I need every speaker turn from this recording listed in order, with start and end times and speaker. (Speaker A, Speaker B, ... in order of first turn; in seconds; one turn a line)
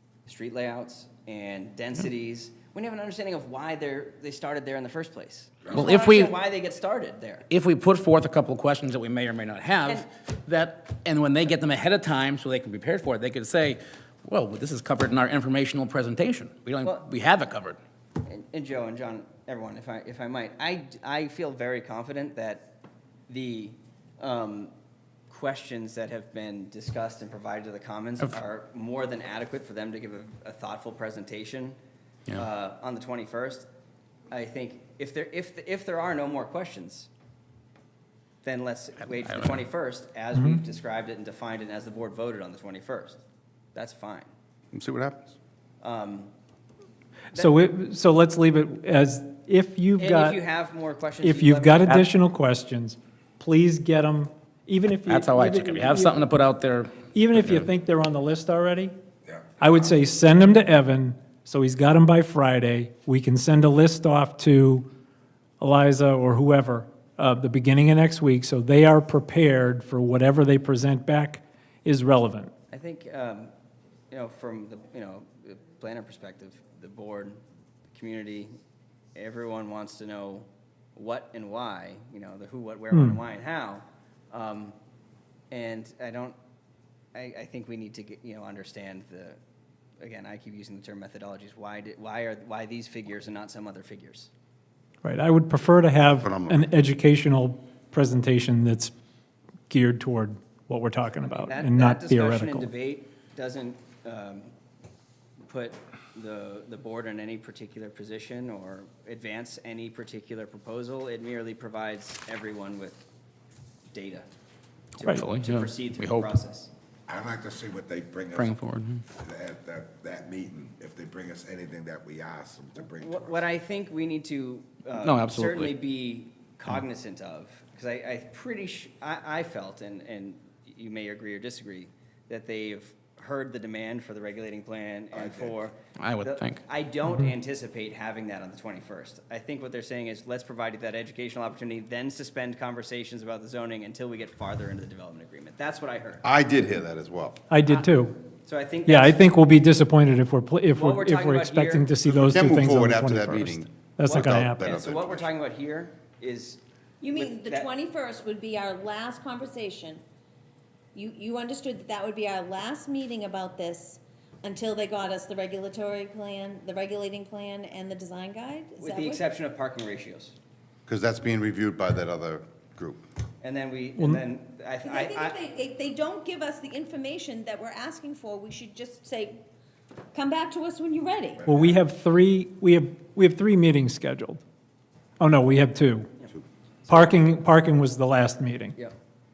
Speaker A: 0.3-7.5
Speaker B: 5.7-6.3
Speaker B: 7.5-17.8
Speaker A: 18.2-22.7
Speaker A: 23.3-24.7
Speaker A: 25.3-31.8
Speaker A: 32.3-33.7
Speaker A: 34.3-37.1
Speaker A: 38.4-43.2
Speaker B: 39.0-39.6
Speaker C: 40.3-40.6
Speaker A: 43.8-44.3
Speaker D: 44.7-45.3
Speaker A: 45.8-46.3
Speaker C: 47.4-50.4
Speaker A: 50.0-52.0
Speaker C: 51.2-56.2
Speaker B: 55.1-57.7
Speaker C: 57.1-58.9
Speaker E: 59.3-59.9
Speaker C: 59.6-64.9
Speaker C: 65.6-72.5
Speaker A: 72.7-73.5
Speaker A: 74.1-78.5
Speaker A: 79.2-84.8
Speaker C: 82.9-83.2
Speaker A: 85.5-86.4
Speaker A: 87.1-89.4
Speaker A: 90.0-94.3
Speaker C: 95.0-98.9
Speaker D: 96.2-96.6
Speaker C: 99.7-102.7
Speaker A: 101.3-104.5
Speaker A: 105.4-113.0
Speaker A: 113.9-114.3
Speaker A: 115.0-116.7
Speaker B: 115.1-116.3
Speaker E: 117.1-118.6
Speaker B: 118.3-119.0
Speaker E: 119.1-123.4
Speaker A: 122.9-146.2
Speaker B: 125.0-125.7
Speaker E: 135.1-135.6
Speaker B: 136.0-136.6
Speaker D: 146.2-147.4
Speaker C: 147.5-148.2
Speaker A: 148.4-149.3
Speaker C: 148.9-154.8
Speaker A: 150.8-151.9
Speaker D: 152.1-155.3
Speaker A: 154.0-157.7
Speaker F: 157.0-160.0
Speaker F: 160.9-169.3
Speaker A: 168.8-170.4
Speaker D: 170.9-173.0
Speaker A: 173.4-175.4
Speaker F: 174.8-179.4
Speaker F: 180.1-181.5
Speaker C: 181.5-184.4
Speaker C: 185.2-186.1
Speaker A: 186.2-187.2
Speaker C: 186.9-188.8